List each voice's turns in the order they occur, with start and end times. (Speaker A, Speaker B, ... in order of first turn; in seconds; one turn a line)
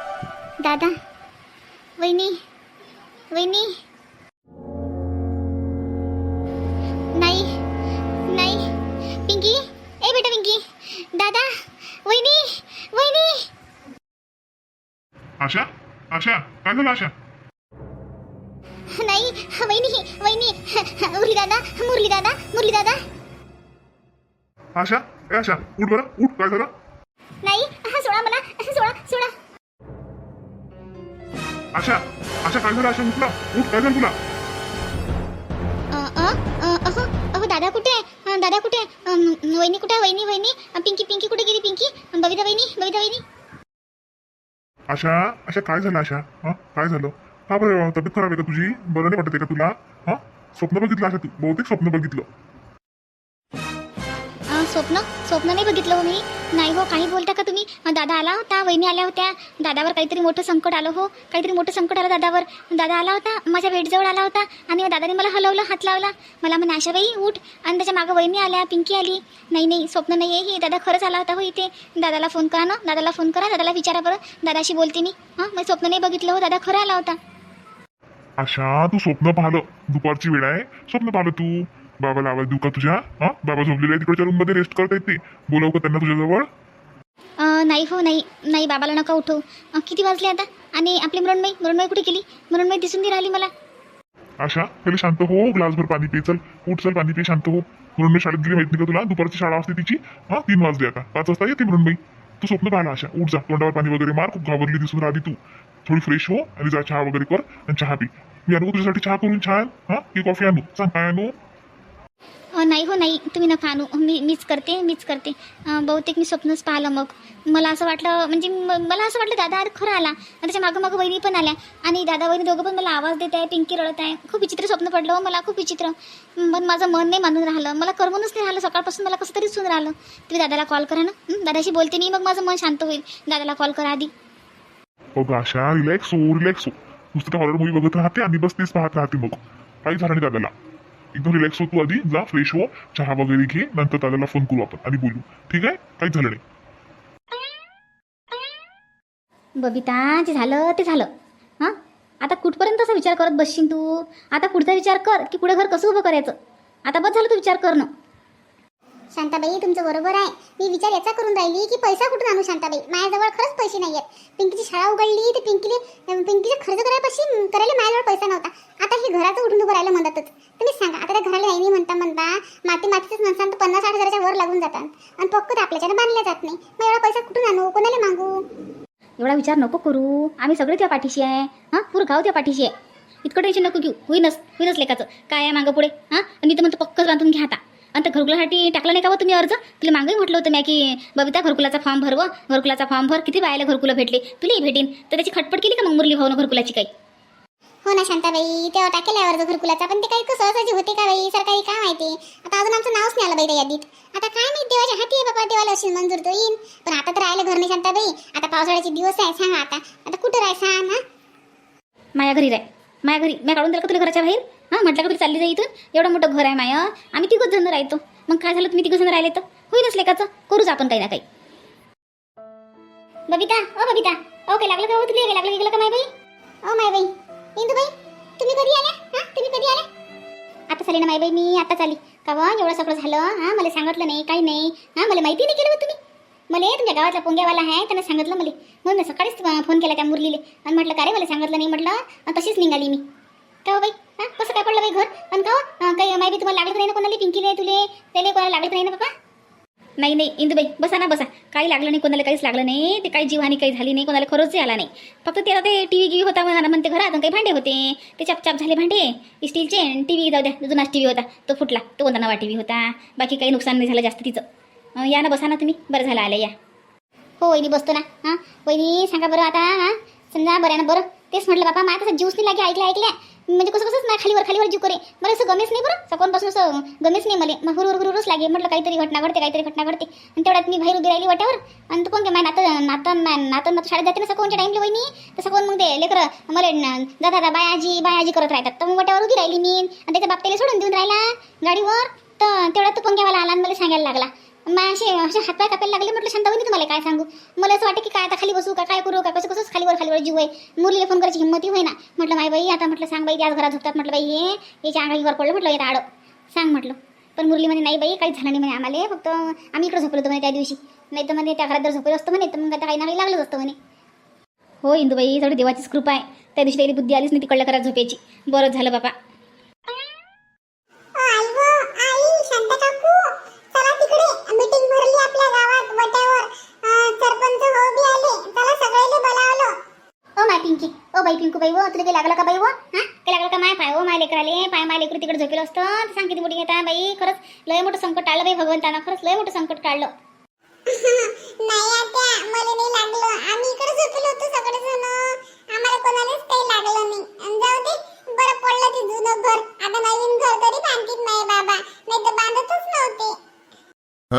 Speaker A: 2.0-2.4
Speaker A: 3.3-3.7
Speaker A: 7.2-7.5
Speaker A: 8.3-8.7
Speaker A: 9.3-13.5
Speaker B: 15.4-17.1
Speaker A: 18.9-23.0
Speaker B: 24.8-26.7
Speaker A: 27.4-29.3
Speaker B: 31.7-34.2
Speaker A: 35.9-43.2
Speaker B: 44.9-52.3
Speaker A: 54.5-77.2
Speaker B: 78.4-86.5
Speaker A: 87.4-93.5
Speaker B: 94.4-111.3
Speaker A: 112.6-134.1
Speaker B: 135.2-140.5
Speaker B: 141.1-146.4
Speaker A: 149.6-151.1
Speaker A: 151.6-156.3
Speaker A: 156.9-157.9
Speaker C: 159.1-178.4
Speaker A: 179.2-182.7
Speaker A: 183.2-196.9
Speaker C: 197.9-211.0
Speaker A: 212.2-221.2
Speaker A: 223.3-226.1
Speaker C: 226.7-229.8
Speaker A: 230.7-236.0
Speaker A: 236.5-243.0
Speaker A: 243.7-249.1
Speaker A: 250.0-264.4
Speaker A: 265.0-266.5
Speaker A: 267.4-313.8
Speaker A: 314.8-319.1
Speaker C: 321.2-329.7
Speaker A: 330.4-340.1
Speaker C: 340.9-353.4